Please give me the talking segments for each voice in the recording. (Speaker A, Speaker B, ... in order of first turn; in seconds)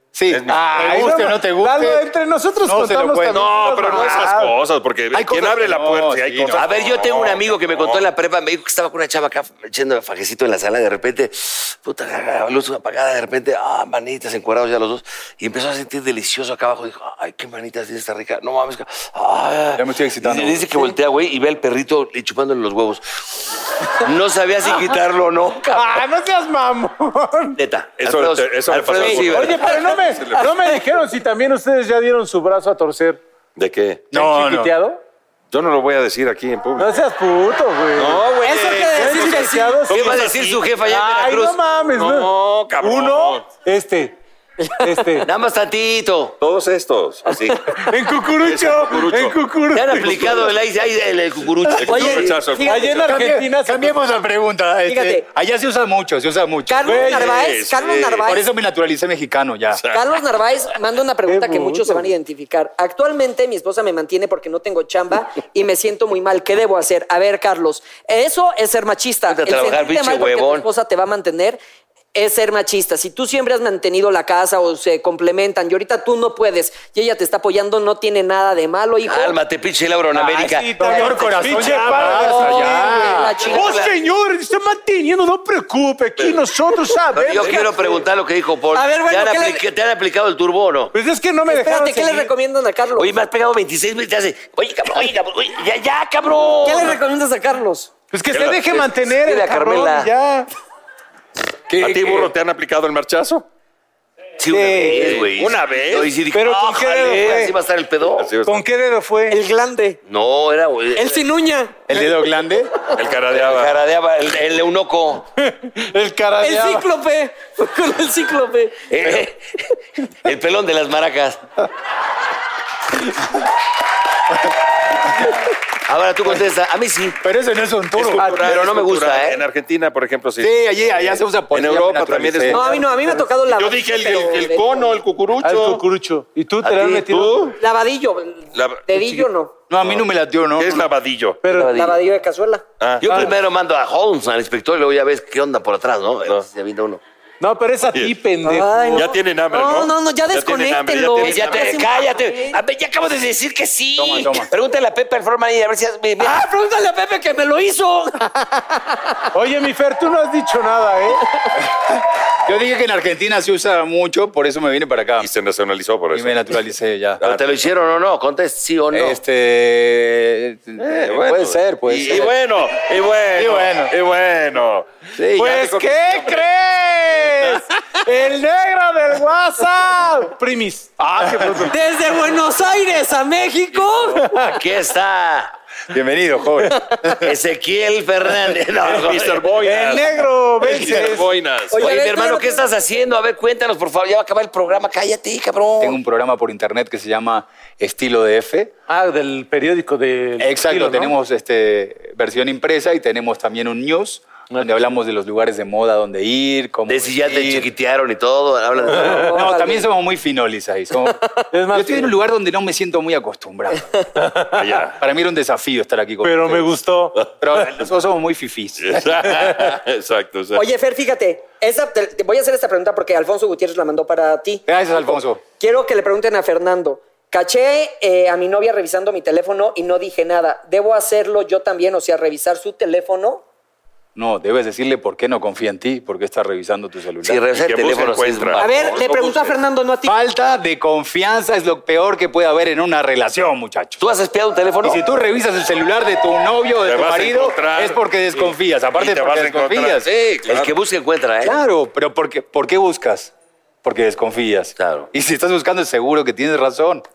Speaker A: 0.1-2.0, 2.6-3.4, 5.1-6.7, 19.8-20.9, 34.1-34.7, 53.0-57.0, 58.2-59.9, 80.8-83.3, 101.7-102.3, 111.9-112.7, 127.2-128.3, 130.4-132.6, 139.7-140.9, 154.0-154.5, 161.7-165.3, 166.1-167.2, 168.9-172.3, 173.3-173.9, 185.9-187.0, 195.8-198.7, 200.4-207.7, 209.3-211.2, 211.7-213.9, 215.0-216.7, 217.4-219.3, 224.7-225.4, 234.1-237.4, 240.1-244.0, 244.8-250.1, 251.4-253.3, 253.8-257.1
Speaker B: 0.3-1.0, 3.3-8.1, 28.0-30.5, 33.6-34.1, 35.5-36.9, 37.9-40.6, 41.9-43.5, 46.4-47.7, 48.4-49.4, 51.8-53.1, 56.9-58.3, 59.7-60.0, 98.3-98.7, 101.8-103.5, 104.8-106.1, 108.2-108.6, 112.9-113.7, 127.9-132.7, 133.5-135.8, 137.1-137.6, 138.5-139.0, 139.8-141.4, 142.8-143.1, 148.9-151.8, 165.2-166.6, 167.2-167.6, 170.8-176.5, 188.9-191.9, 214.5-215.0, 218.8-220.6, 237.5-239.6, 246.8-248.0, 248.9-250.7
Speaker C: 0.5-4.6, 25.7-27.6, 29.0-33.2, 34.1-35.0, 36.8-38.3, 38.9-40.3, 40.8-44.2, 44.8-45.2, 47.8-50.5, 51.9-54.0, 56.8-57.3, 61.2-62.1, 80.1-88.0, 90.9-92.3, 98.1-100.5, 104.5-105.2, 106.3-107.5, 108.5-109.4, 115.4-116.9, 128.2-128.5, 132.6-133.3, 135.4-137.5, 141.4-141.8, 143.1-143.3, 147.4-149.1, 159.3-161.2, 175.4-181.8, 184.2-184.6, 189.6-191.3, 198.9-201.2, 208.9-209.2, 211.5-212.1, 214.2-214.6, 216.2-217.7
Speaker D: 6.5-26.0, 27.6-29.7, 39.9-41.6, 45.2-46.4, 49.7-52.4, 69.3-70.7, 79.1-81.1, 83.5-83.9, 87.1-90.9, 93.0-97.0, 98.7-100.1, 104.4-108.3, 110.0-111.2, 113.3-115.3, 118.9-119.6, 120.2-121.4, 125.8-127.2, 128.4-129.4, 136.6-137.1, 141.5-142.0, 143.0-147.0, 151.2-156.4, 167.2-169.2, 184.5-185.5, 187.2-189.6, 191.8-196.0, 206.9-209.3, 237.2-238.6, 244.0-245.0, 250.5-251.5, 254.8-255.1
Speaker E: 38.4-39.8, 44.6-44.9, 51.9-53.0, 54.9-55.2, 56.7-58.4, 59.9-71.6, 72.1-79.4, 81.6-83.9, 88.7-89.6, 91.5-93.1, 96.6-97.9, 109.3-110.0, 110.9-111.8, 116.4-118.8, 132.5-134.9, 137.6-139.5, 141.7-142.6, 148.4-152.6, 156.2-158.9, 181.7-184.3, 191.7-192.7, 208.9-209.9, 220.5-224.6, 225.6-233.4, 238.6-240.2